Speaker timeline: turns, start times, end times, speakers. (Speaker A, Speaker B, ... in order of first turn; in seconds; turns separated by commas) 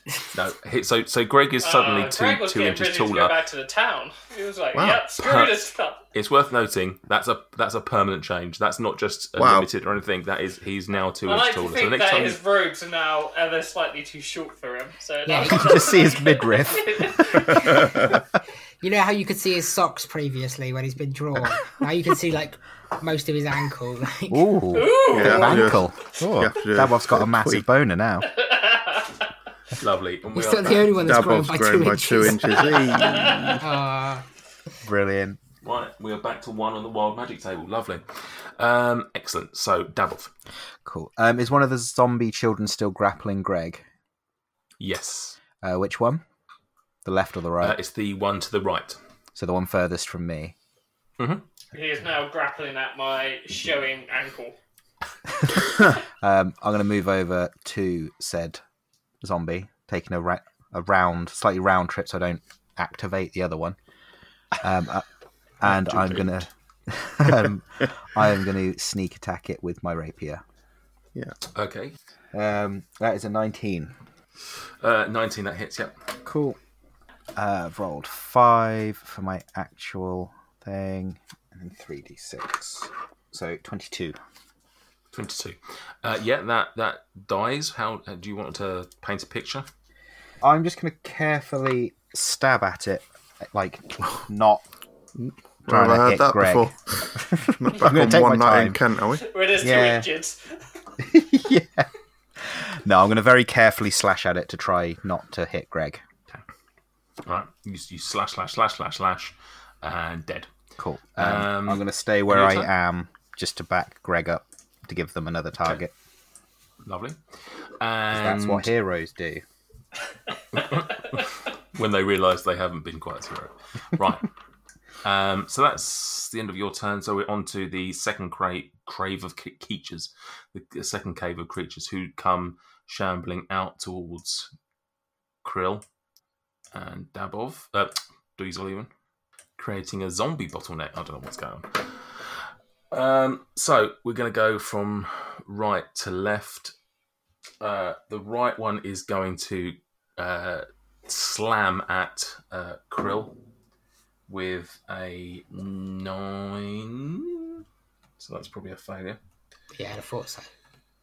Speaker A: 0.3-3.4, Speaker B: 1.6-6.0, Speaker C: 4.7-5.0, Speaker A: 5.2-5.6, Speaker A: 6.1-12.4, Speaker C: 9.3-9.7, Speaker B: 11.2-17.7, Speaker D: 15.2-15.8, Speaker E: 15.3-18.2, Speaker C: 17.7-18.0, Speaker D: 18.8-24.5, Speaker E: 24.3-28.3, Speaker B: 24.7-25.8, Speaker C: 25.1-27.6, Speaker B: 28.3-29.3, Speaker A: 29.8-30.9, Speaker D: 30.3-32.8, Speaker C: 31.0-33.6, Speaker B: 32.7-33.5, Speaker D: 33.6-34.2, Speaker E: 34.8-35.4, Speaker A: 35.6-40.3, Speaker E: 40.8-43.8, Speaker A: 44.8-45.4, Speaker E: 45.6-46.2, Speaker E: 47.0-47.8, Speaker A: 47.6-49.0, Speaker E: 49.3-50.5, Speaker A: 51.2-51.4, Speaker B: 51.7-54.6, Speaker E: 55.6-58.6, Speaker E: 59.2-63.8, Speaker E: 64.6-65.0, Speaker E: 65.6-70.4, Speaker C: 65.9-66.2, Speaker A: 71.5-71.9, Speaker E: 72.3-73.9, Speaker A: 74.8-76.0, Speaker E: 76.2-76.6, Speaker E: 77.3-84.2, Speaker A: 85.1-89.7, Speaker E: 90.4-94.6, Speaker C: 95.2-99.2, Speaker E: 95.7-98.8, Speaker B: 99.2-100.6, Speaker E: 99.6-100.1, Speaker E: 101.0-106.0, Speaker A: 107.2-110.5, Speaker E: 110.8-115.9, Speaker A: 111.2-112.7, Speaker A: 116.8-117.2, Speaker A: 117.8-118.7, Speaker E: 118.1-119.4, Speaker A: 120.5-124.3, Speaker A: 125.0-134.5, Speaker A: 135.4-135.8, Speaker A: 136.7-138.9, Speaker A: 139.6-146.7, Speaker A: 147.6-153.4, Speaker A: 154.3-157.6, Speaker A: 158.2-159.2, Speaker D: 159.7-160.5